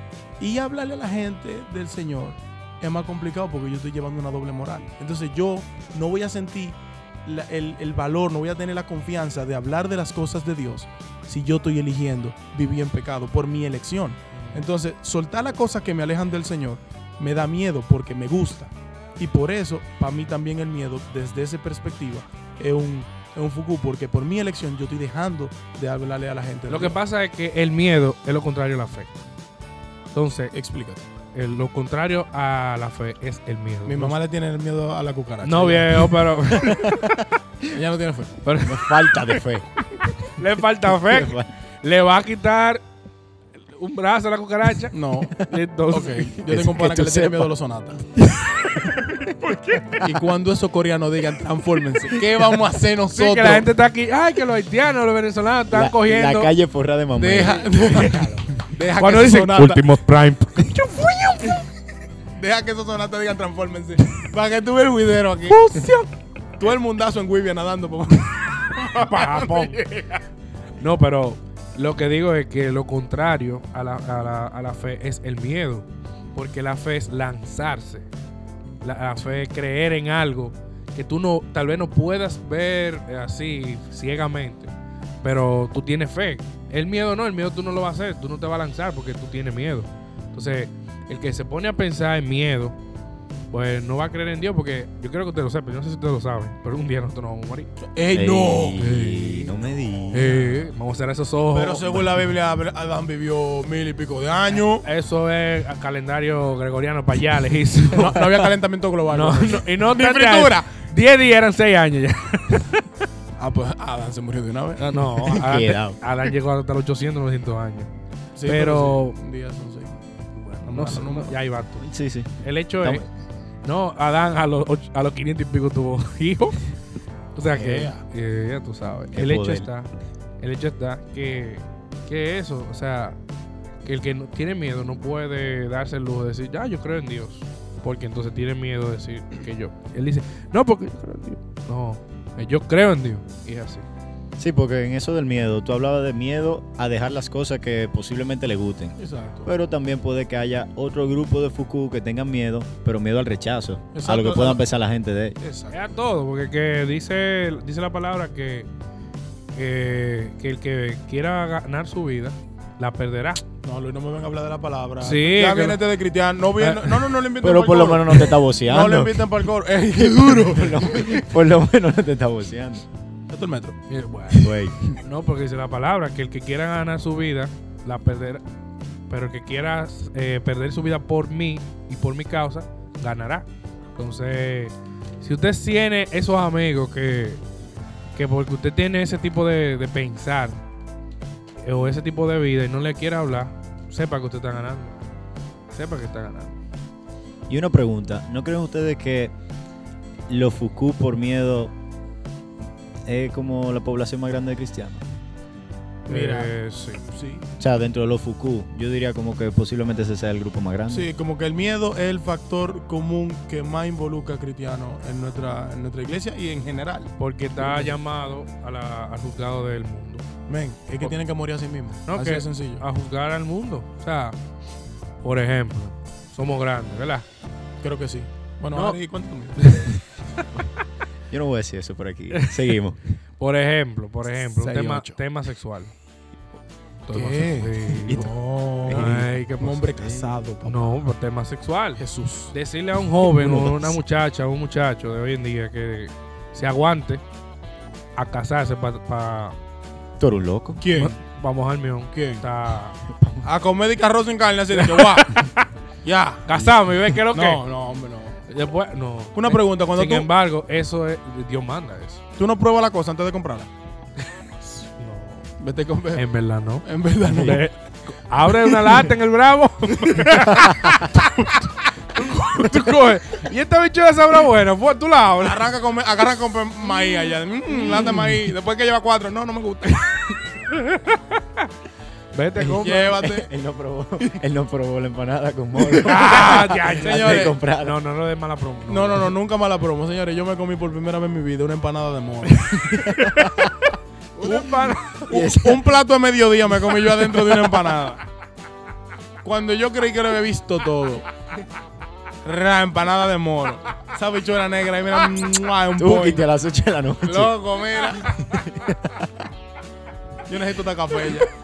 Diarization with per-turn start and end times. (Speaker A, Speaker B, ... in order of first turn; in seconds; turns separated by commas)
Speaker A: 0.4-27.0, Speaker B: 14.3-14.6, Speaker B: 26.7-29.2, Speaker B: 30.1-30.5, Speaker A: 30.5-31.0, Speaker B: 31.3-34.2, Speaker A: 33.9-36.2, Speaker B: 35.4-37.0, Speaker C: 36.6-37.2, Speaker A: 37.6-38.4, Speaker B: 38.5-39.4, Speaker C: 38.6-39.7, Speaker B: 40.0-42.8, Speaker C: 40.9-41.5, Speaker B: 43.7-46.3, Speaker A: 44.9-48.0, Speaker C: 46.4-47.5, Speaker C: 48.2-49.3, Speaker B: 48.8-50.0, Speaker A: 50.0-53.7, Speaker B: 53.1-56.5, Speaker C: 55.7-58.2, Speaker A: 57.1-59.9, Speaker B: 57.8-58.5, Speaker B: 59.0-61.6, Speaker A: 62.4-65.7, Speaker B: 65.5-66.1, Speaker A: 66.6-70.2, Speaker B: 68.9-69.8, Speaker B: 70.8-78.1, Speaker B: 78.8-84.7, Speaker B: 85.2-92.8, Speaker B: 93.5-97.7, Speaker A: 97.9-98.8, Speaker C: 98.1-100.6, Speaker B: 98.8-99.5, Speaker B: 100.1-102.1, Speaker A: 101.5-104.9, Speaker B: 104.8-108.4, Speaker A: 107.9-110.7, Speaker B: 109.1-112.8, Speaker A: 113.4-115.0, Speaker B: 114.8-117.9, Speaker C: 115.2-116.0, Speaker A: 118.4-120.0, Speaker B: 118.5-119.2, Speaker B: 120.4-121.9, Speaker A: 120.7-121.4, Speaker C: 121.8-123.0, Speaker B: 122.4-123.0, Speaker B: 123.6-126.6, Speaker B: 127.3-133.2, Speaker A: 127.5-128.0, Speaker C: 129.1-129.7, Speaker B: 133.8-143.8, Speaker C: 144.4-155.4, Speaker A: 149.0-149.5, Speaker A: 153.9-154.6, Speaker A: 155.4-155.8, Speaker B: 155.7-158.7, Speaker B: 159.6-163.4, Speaker A: 163.6-171.3, Speaker B: 165.0-165.8, Speaker B: 166.6-167.1, Speaker C: 167.4-169.3, Speaker C: 169.9-172.9, Speaker A: 173.3-173.8, Speaker B: 173.9-178.4, Speaker C: 174.4-175.0, Speaker B: 179.1-187.4, Speaker B: 188.2-190.6, Speaker B: 191.6-195.0, Speaker B: 195.7-196.5, Speaker C: 197.5-199.3, Speaker C: 200.3-201.7, Speaker C: 203.1-205.0, Speaker A: 206.1-206.5, Speaker B: 206.1-207.0, Speaker A: 207.1-207.4, Speaker C: 207.6-211.1, Speaker A: 210.9-218.0, Speaker B: 217.2-220.3, Speaker A: 220.5-222.8, Speaker B: 222.1-224.4, Speaker B: 225.2-227.3, Speaker A: 227.8-229.9, Speaker B: 228.7-229.0, Speaker B: 229.6-230.4, Speaker C: 231.3-233.0, Speaker B: 232.3-232.7, Speaker B: 233.4-235.9, Speaker A: 234.5-235.2, Speaker B: 237.1-238.3, Speaker A: 237.1-241.1, Speaker C: 238.1-238.3, Speaker C: 238.8-239.3, Speaker B: 238.9-239.8, Speaker C: 240.0-240.3, Speaker B: 240.7-247.2, Speaker A: 242.0-242.6, Speaker C: 243.2-244.0, Speaker B: 248.2-249.6, Speaker C: 250.2-250.8, Speaker A: 250.8-251.2, Speaker B: 250.9-253.0, Speaker A: 252.1-252.4, Speaker C: 253.1-253.4, Speaker A: 253.4-255.4, Speaker B: 254.8-255.7, Speaker A: 256.0-256.6, Speaker B: 256.5-257.6, Speaker A: 257.3-258.4, Speaker B: 258.5-262.2, Speaker A: 259.3-260.3, Speaker A: 262.4-263.7, Speaker B: 264.6-265.5, Speaker A: 265.6-266.3, Speaker B: 266.1-271.6, Speaker A: 266.8-267.7, Speaker A: 268.5-269.1, Speaker A: 269.9-270.8, Speaker B: 272.1-275.7, Speaker A: 275.4-280.4, Speaker B: 280.7-281.7, Speaker B: 282.3-283.2, Speaker C: 282.6-288.0, Speaker A: 282.8-283.5, Speaker A: 286.0-287.6, Speaker B: 286.0-289.3, Speaker A: 288.9-292.8, Speaker C: 292.6-293.7, Speaker B: 293.0-293.7, Speaker B: 294.4-295.3, Speaker A: 294.4-298.2, Speaker C: 295.3-295.9, Speaker A: 299.4-301.3, Speaker A: 302.4-306.5, Speaker C: 306.0-307.6, Speaker A: 307.2-308.3, Speaker C: 308.3-309.4, Speaker A: 310.5-311.5